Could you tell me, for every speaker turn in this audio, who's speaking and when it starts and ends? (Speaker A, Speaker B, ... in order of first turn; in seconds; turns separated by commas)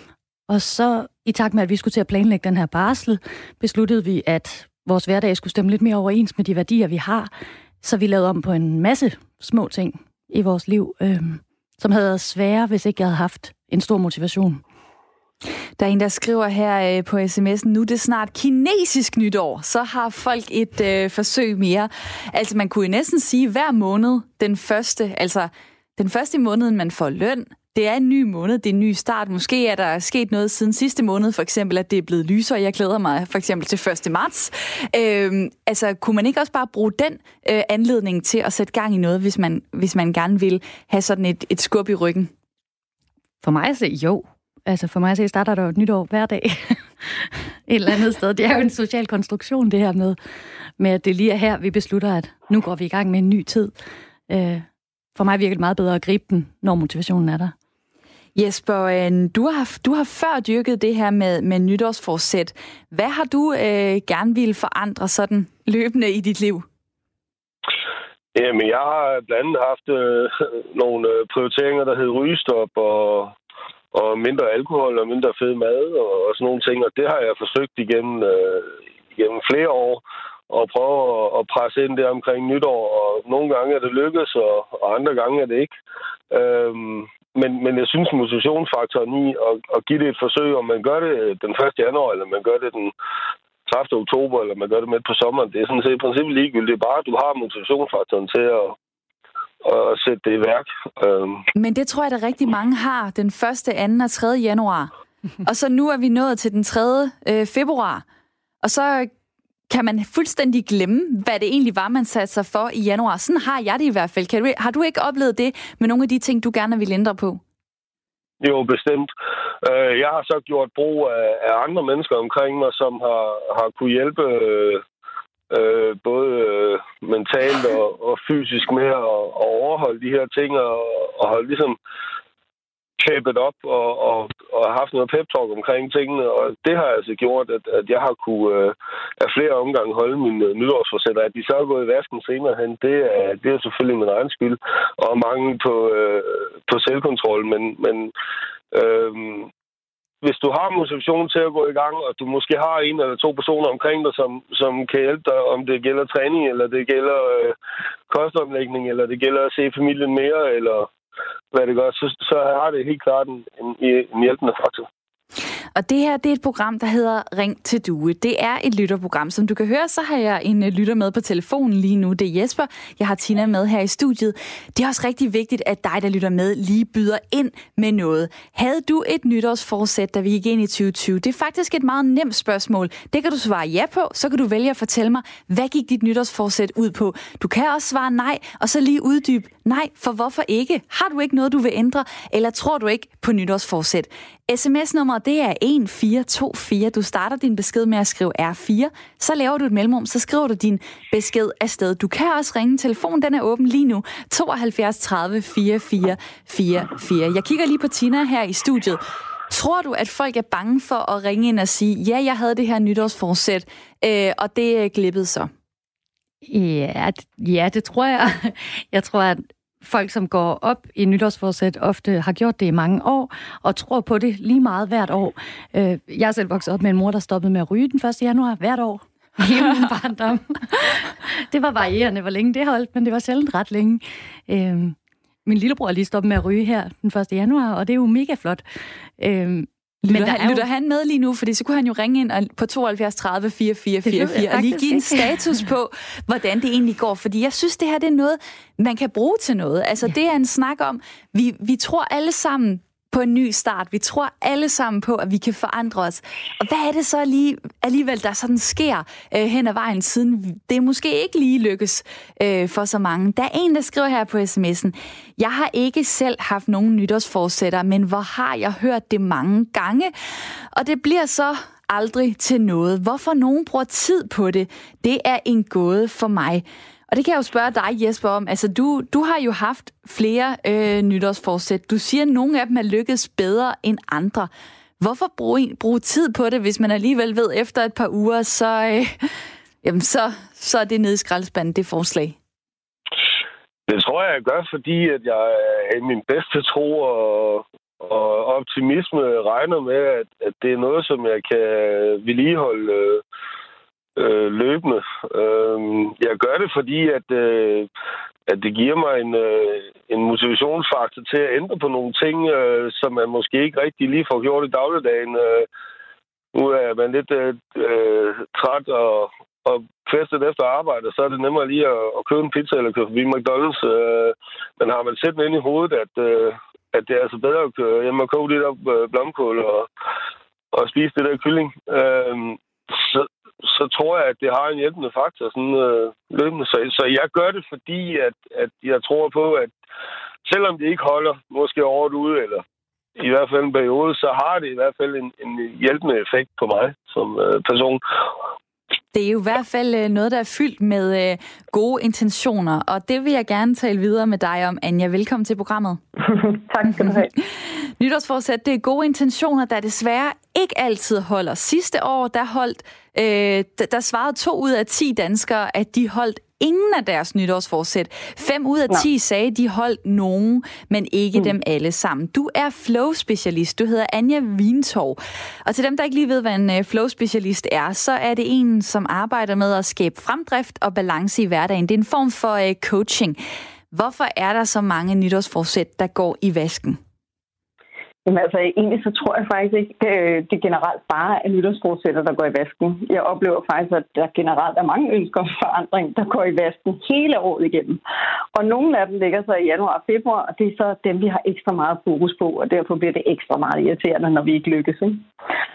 Speaker A: 0.5-7.3, Speaker A: 7.8-14.6, Speaker B: 15.8-42.3, Speaker A: 43.4-50.2, Speaker A: 50.8-53.7, Speaker A: 54.3-57.5, Speaker B: 58.4-66.6, Speaker C: 68.3-73.3, Speaker C: 73.9-85.7, Speaker C: 86.3-92.9, Speaker C: 93.7-98.8, Speaker C: 99.6-101.4, Speaker B: 101.5-104.9, Speaker B: 105.4-108.0, Speaker B: 108.6-109.1, Speaker B: 109.7-117.4, Speaker C: 118.4-119.1, Speaker C: 119.6-124.8, Speaker C: 125.5-131.8, Speaker C: 133.0-148.1, Speaker C: 148.7-149.5, Speaker C: 150.2-157.6, Speaker C: 158.1-160.9, Speaker C: 161.5-164.9, Speaker B: 165.7-215.5, Speaker A: 216.4-238.6, Speaker A: 239.2-240.6, Speaker B: 240.0-289.3, Speaker A: 244.1-245.7, Speaker B: 289.8-292.4, Speaker C: 293.9-303.2, Speaker C: 304.1-307.9, Speaker C: 308.5-315.7, Speaker C: 316.5-329.9, Speaker C: 330.7-339.7, Speaker C: 340.4-342.6, Speaker C: 343.2-348.0, Speaker B: 349.1-356.0, Speaker D: 356.2-357.3, Speaker B: 358.0-383.4, Speaker B: 383.9-387.0, Speaker D: 388.2-398.0, Speaker D: 398.5-405.2